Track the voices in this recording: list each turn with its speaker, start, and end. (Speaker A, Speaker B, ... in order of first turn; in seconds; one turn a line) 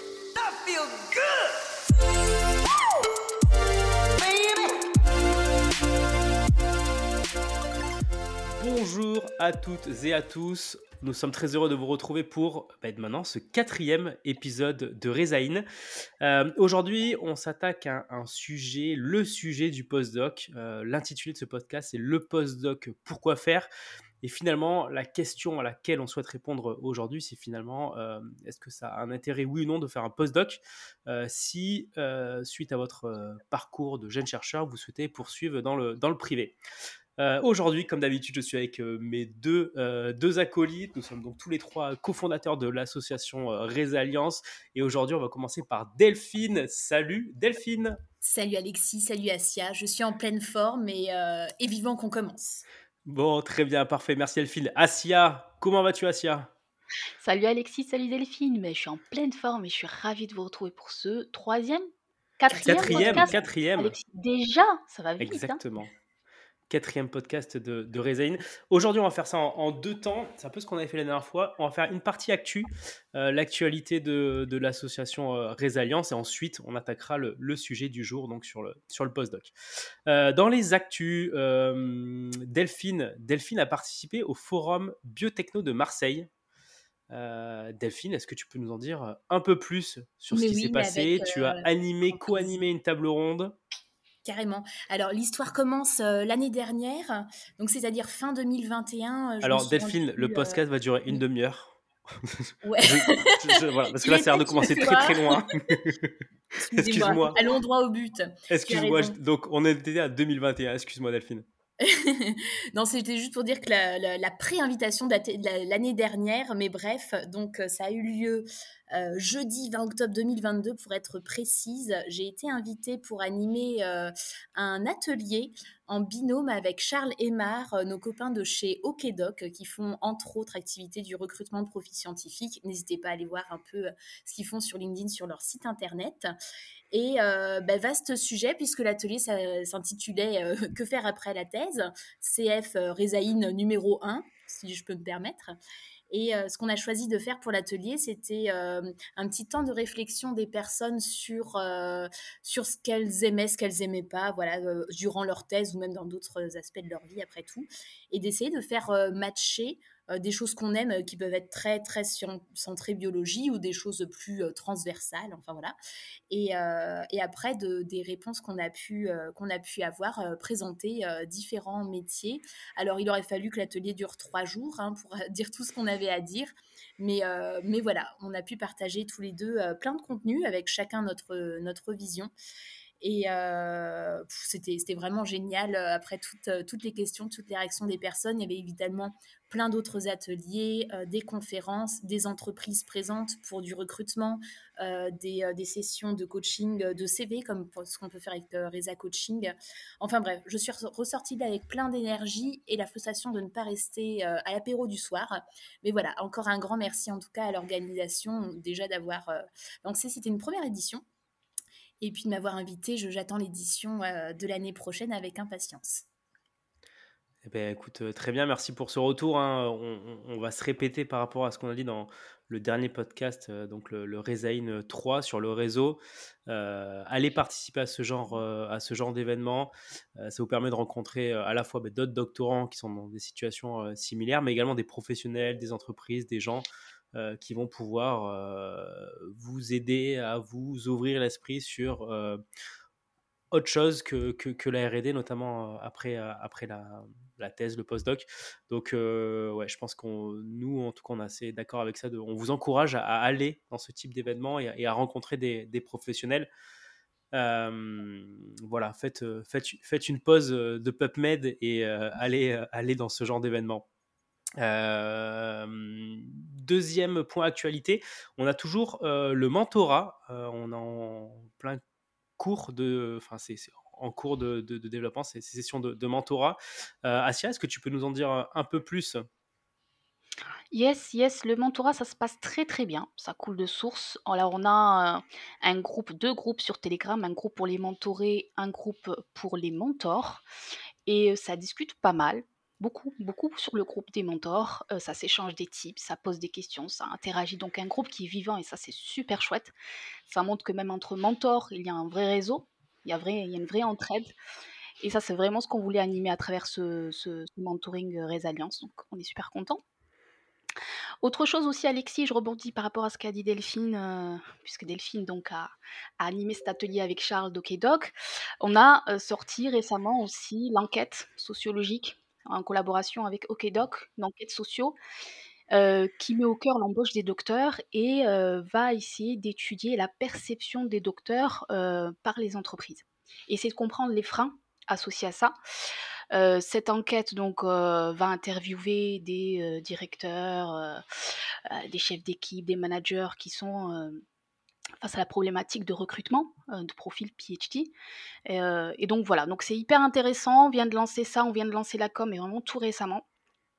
Speaker A: 0.6-1.1
Speaker A: 4.3-4.7
Speaker A: 8.6-15.6
Speaker A: 16.2-23.7
Speaker A: 24.2-36.5
Speaker A: 37.2-48.0
Speaker B: 48.2-52.6
Speaker A: 53.0-56.5
Speaker C: 57.2-61.9
Speaker C: 62.4-65.6
Speaker A: 62.5-64.0
Speaker B: 62.5-63.4
Speaker A: 65.2-65.9
Speaker A: 66.7-79.5
Speaker A: 80.1-86.3
Speaker A: 87.1-93.6
Speaker B: 90.3-92.5
Speaker B: 94.2-101.2
Speaker A: 99.4-106.1
Speaker B: 102.6-105.7
Speaker B: 106.6-109.2
Speaker A: 106.7-107.4
Speaker A: 108.5-111.4
Speaker B: 111.8-136.3
Speaker B: 136.9-145.6
Speaker B: 146.1-165.7
Speaker B: 166.3-182.3
Speaker B: 183.0-211.0
Speaker B: 212.0-216.1
Speaker A: 217.4-242.4
Speaker A: 243.5-256.5
Speaker A: 257.3-263.8
Speaker A: 264.6-271.8
Speaker A: 272.4-279.2
Speaker C: 280.7-290.4
Speaker C: 291.1-299.7
Speaker C: 300.3-304.3
Speaker C: 305.0-309.8
Speaker C: 311.2-324.9
Speaker C: 325.7-335.5
Speaker C: 336.3-344.2
Speaker C: 345.0-347.9
Speaker C: 348.4-353.2